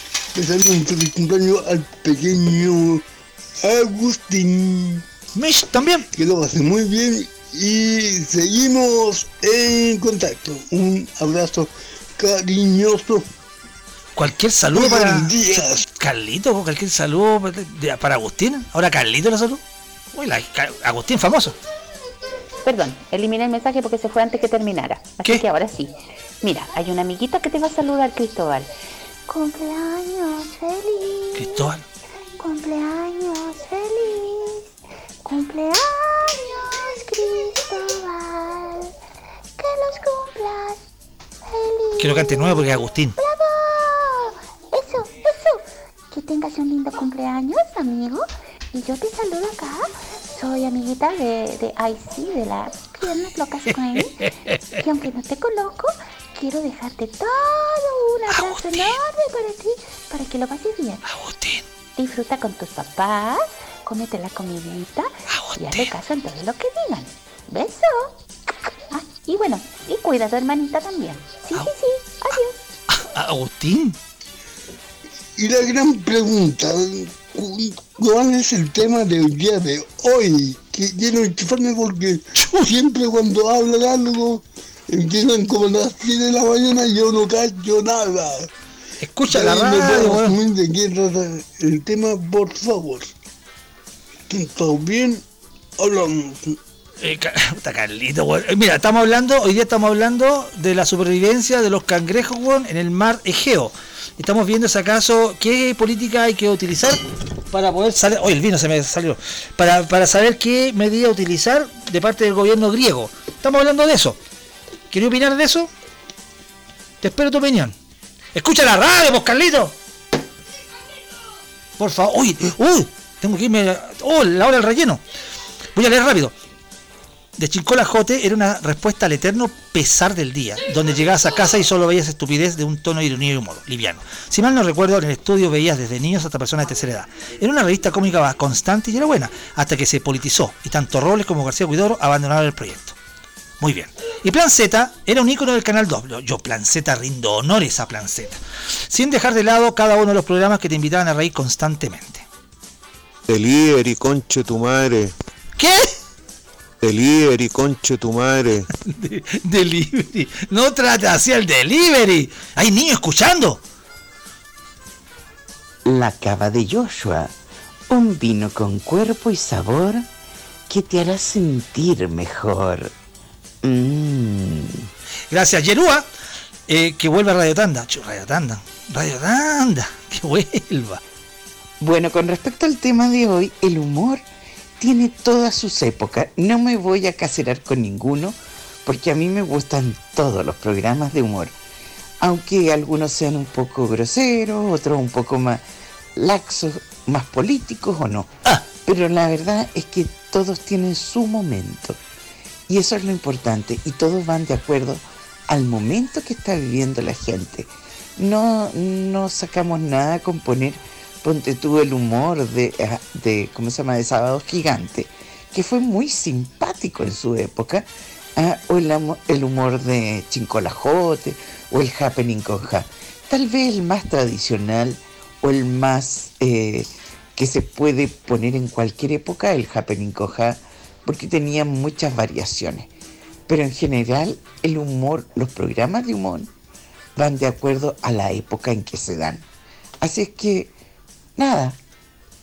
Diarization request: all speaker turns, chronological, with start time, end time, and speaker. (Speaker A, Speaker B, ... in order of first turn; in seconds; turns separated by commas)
Speaker A: 0.3-3.0, Speaker A: 3.6-5.0, Speaker B: 5.3-6.1, Speaker A: 6.1-13.2, Speaker B: 14.2-19.6, Speaker A: 14.7-15.8, Speaker B: 20.1-21.6, Speaker C: 22.6-28.7, Speaker C: 29.3-31.7, Speaker B: 31.4-31.9, Speaker C: 32.4-34.7, Speaker C: 35.2-38.9, Speaker C: 39.6-40.8, Speaker C: 41.5-61.0, Speaker B: 42.0-43.2, Speaker B: 53.7-54.8, Speaker B: 58.3-59.0, Speaker B: 61.0-61.6, Speaker C: 62.0-72.6, Speaker B: 65.3-65.9, Speaker B: 72.9-74.0, Speaker A: 75.4-88.5, Speaker B: 82.4-82.7, Speaker B: 89.0-90.4, Speaker A: 89.3-93.1, Speaker A: 94.3-95.2, Speaker A: 95.8-96.6, Speaker B: 97.0-107.0, Speaker B: 107.5-114.2, Speaker B: 114.9-115.7, Speaker B: 117.0-117.8, Speaker B: 118.3-119.8, Speaker B: 121.8-125.0, Speaker B: 125.8-126.3, Speaker B: 127.4-143.0, Speaker B: 143.6-152.3, Speaker D: 153.3-155.1, Speaker B: 155.6-155.9, Speaker D: 156.9-158.6, Speaker B: 158.9-163.6, Speaker E: 165.9-167.3, Speaker E: 167.9-170.1, Speaker E: 170.7-172.9, Speaker E: 173.6-174.9, Speaker B: 175.3-176.1, Speaker B: 176.7-181.0, Speaker E: 181.8-184.2, Speaker E: 184.8-191.5, Speaker E: 192.2-195.6, Speaker E: 196.2-202.0, Speaker E: 202.7-232.9, Speaker E: 233.5-236.5, Speaker E: 237.2-239.4, Speaker E: 240.0-240.7, Speaker E: 241.4-241.8